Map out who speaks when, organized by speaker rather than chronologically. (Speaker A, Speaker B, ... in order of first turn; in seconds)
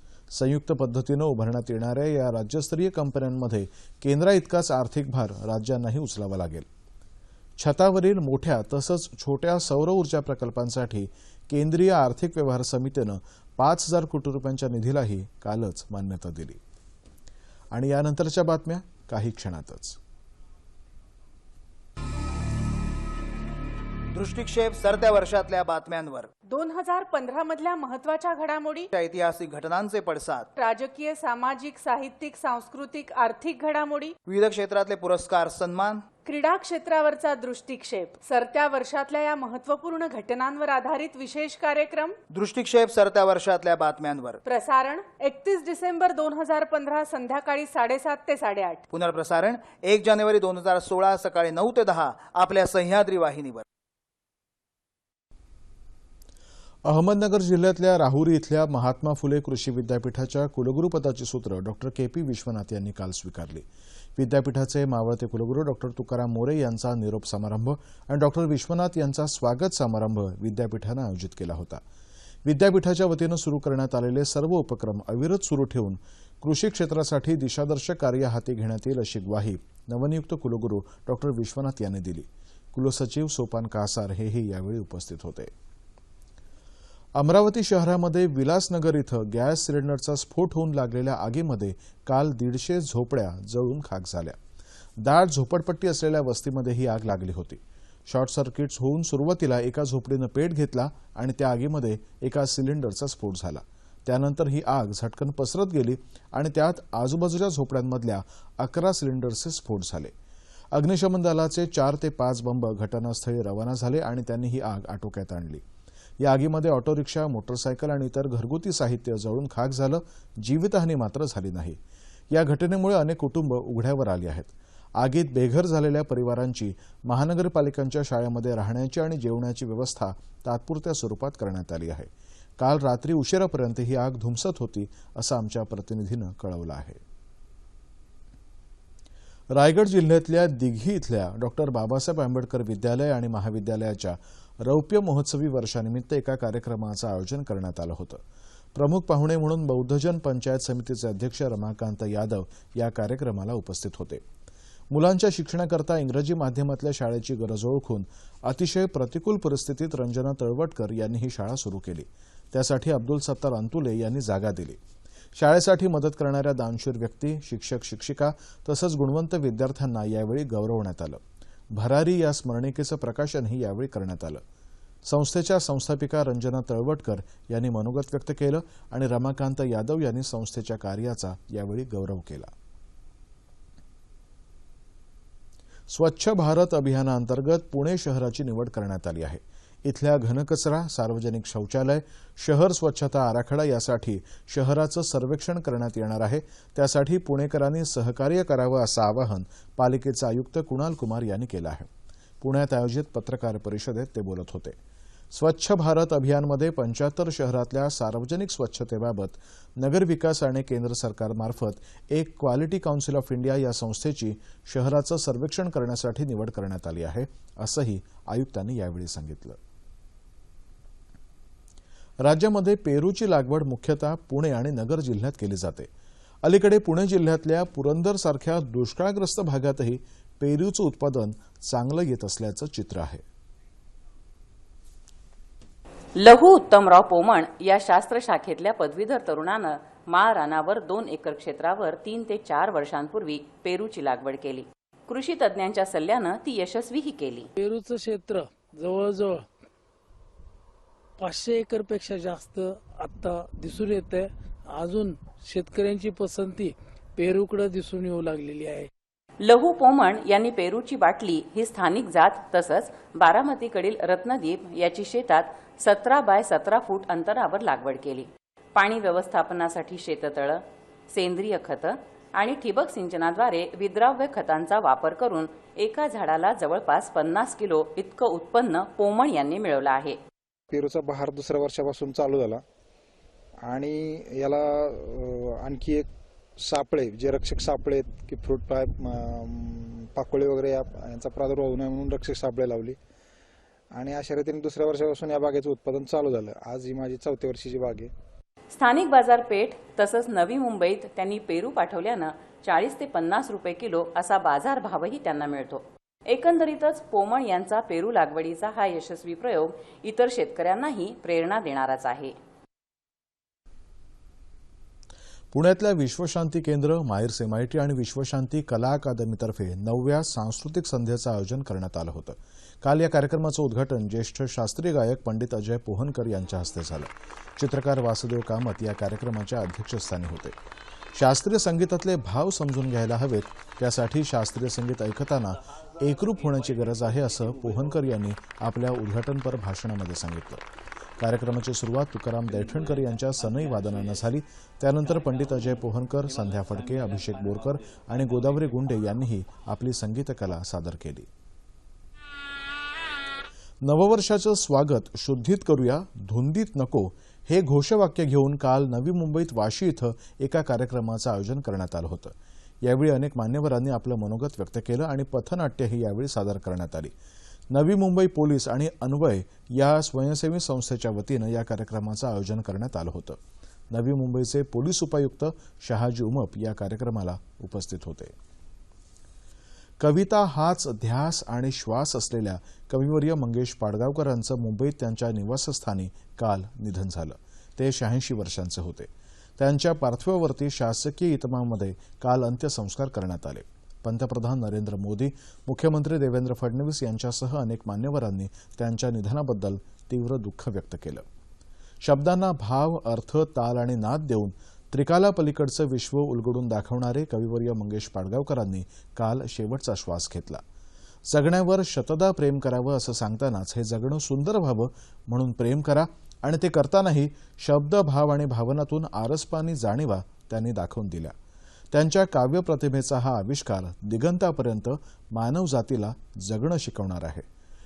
Speaker A: 0.3-6.7, 7.6-16.6, 17.7-20.0, 56.9-63.7, 64.2-71.8, 72.5-85.5, 87.2-94.4, 95.0-110.1, 110.7-115.6, 116.2-121.8, 122.3-137.0, 139.5-148.2, 148.8-154.2, 154.9-164.8, 165.4-171.2, 171.7-174.4, 175.1-182.5, 185.9-201.9, 202.4-204.8, 205.3-219.6, 222.2-225.9, 226.4-233.2, 315.5-330.5, 331.1-340.6, 341.2-351.3, 353.8-367.1, 367.7-373.4, 373.9-378.3, 380.0-401.2, 402.0-410.6, 411.3-421.3, 421.9-427.4
Speaker B: 24.1-26.3, 28.9-30.5, 34.3-36.0, 42.3-44.4, 48.9-53.6
Speaker C: 26.5-28.9, 30.6-34.1, 36.2-42.2, 44.5-48.8
Speaker D: 236.2-247.5, 259.4-280.2, 298.7-312.4
Speaker E: 247.6-249.4, 251.2-254.3, 254.8-258.9
Speaker F: 280.7-282.6, 283.6-286.1, 286.6-293.0, 293.9-298.1